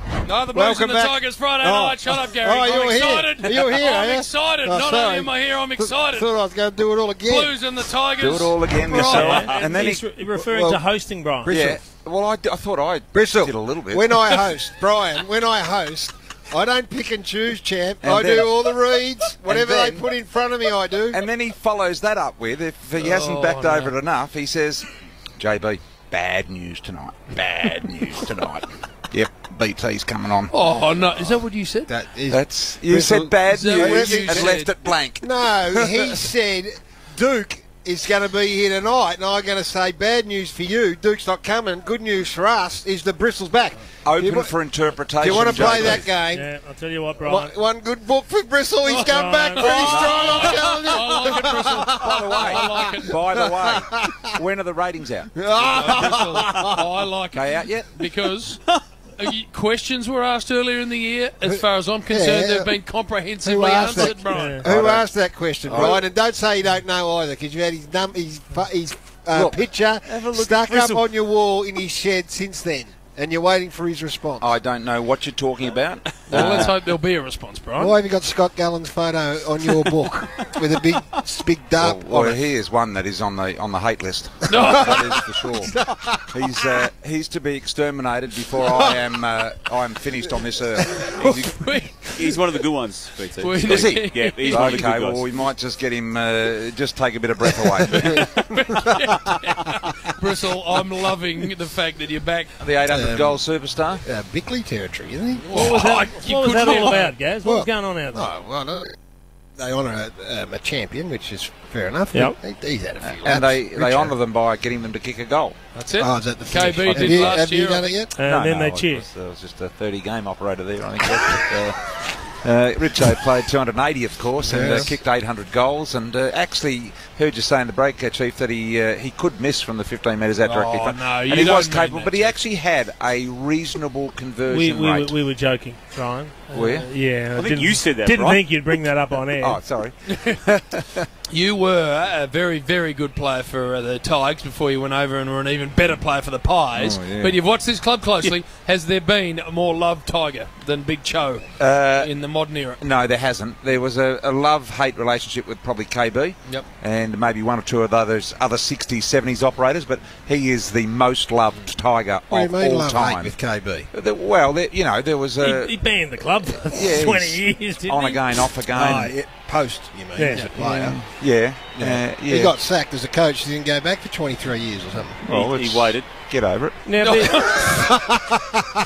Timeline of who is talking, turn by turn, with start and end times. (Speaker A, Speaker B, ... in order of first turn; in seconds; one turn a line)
Speaker A: 0.2-6.3
Speaker B: 0.5-7.6
Speaker A: 7.2-9.6
Speaker C: 8.2-10.1
Speaker D: 8.9-11.6
Speaker E: 9.1-9.6
Speaker B: 10.3-10.8
Speaker C: 11.4-14.3
Speaker B: 11.5-11.8
Speaker B: 13.1-21.2
Speaker C: 18.0-20.1
Speaker C: 21.1-30.6
Speaker A: 23.0-23.9
Speaker A: 27.6-28.0
Speaker A: 30.5-31.9
Speaker B: 31.9-34.6
Speaker C: 32.3-36.3
Speaker A: 33.5-34.7
Speaker B: 35.2-44.6
Speaker C: 44.0-46.1
Speaker B: 45.1-46.5
Speaker D: 45.6-47.5
Speaker B: 47.2-54.3
Speaker D: 48.9-50.0
Speaker A: 49.5-53.2
Speaker C: 49.8-50.7
Speaker C: 52.0-56.0
Speaker B: 55.4-56.7
Speaker A: 55.6-64.6
Speaker C: 57.3-58.1
Speaker B: 61.4-62.7
Speaker B: 63.4-74.5
Speaker D: 64.0-64.7
Speaker C: 64.6-66.1
Speaker C: 69.3-71.0
Speaker C: 74.4-76.8
Speaker A: 76.3-77.9
Speaker B: 76.3-76.7
Speaker B: 77.8-82.4
Speaker C: 81.8-85.7
Speaker A: 84.5-85.0
Speaker B: 84.7-86.8
Speaker C: 86.3-92.2
Speaker B: 88.6-89.0
Speaker A: 91.2-92.4
Speaker E: 92.2-95.3
Speaker A: 93.4-94.9
Speaker C: 93.6-98.5
Speaker A: 97.9-102.6
Speaker C: 102.6-104.0
Speaker B: 102.9-105.7
Speaker A: 105.5-107.2
Speaker D: 105.5-108.3
Speaker B: 107.4-108.9
Speaker B: 109.6-114.2
Speaker D: 112.1-112.4
Speaker C: 112.9-115.6
Speaker A: 115.7-117.9
Speaker B: 116.0-118.2
Speaker C: 116.8-117.4
Speaker D: 118.2-119.1
Speaker C: 118.2-135.1
Speaker B: 124.5-125.0
Speaker A: 124.5-124.9
Speaker A: 130.4-132.4
Speaker D: 134.5-139.7
Speaker C: 136.5-137.2
Speaker E: 137.3-138.8
Speaker C: 139.4-141.0
Speaker A: 141.3-152.8
Speaker C: 146.8-147.4
Speaker C: 151.6-169.1
Speaker B: 162.3-163.9
Speaker D: 165.4-169.0
Speaker B: 168.7-171.2
Speaker D: 170.2-171.0
Speaker C: 170.6-172.6
Speaker B: 171.8-175.2
Speaker C: 175.2-177.4
Speaker E: 175.2-176.1
Speaker D: 176.8-178.0
Speaker A: 177.0-177.7
Speaker B: 177.6-178.2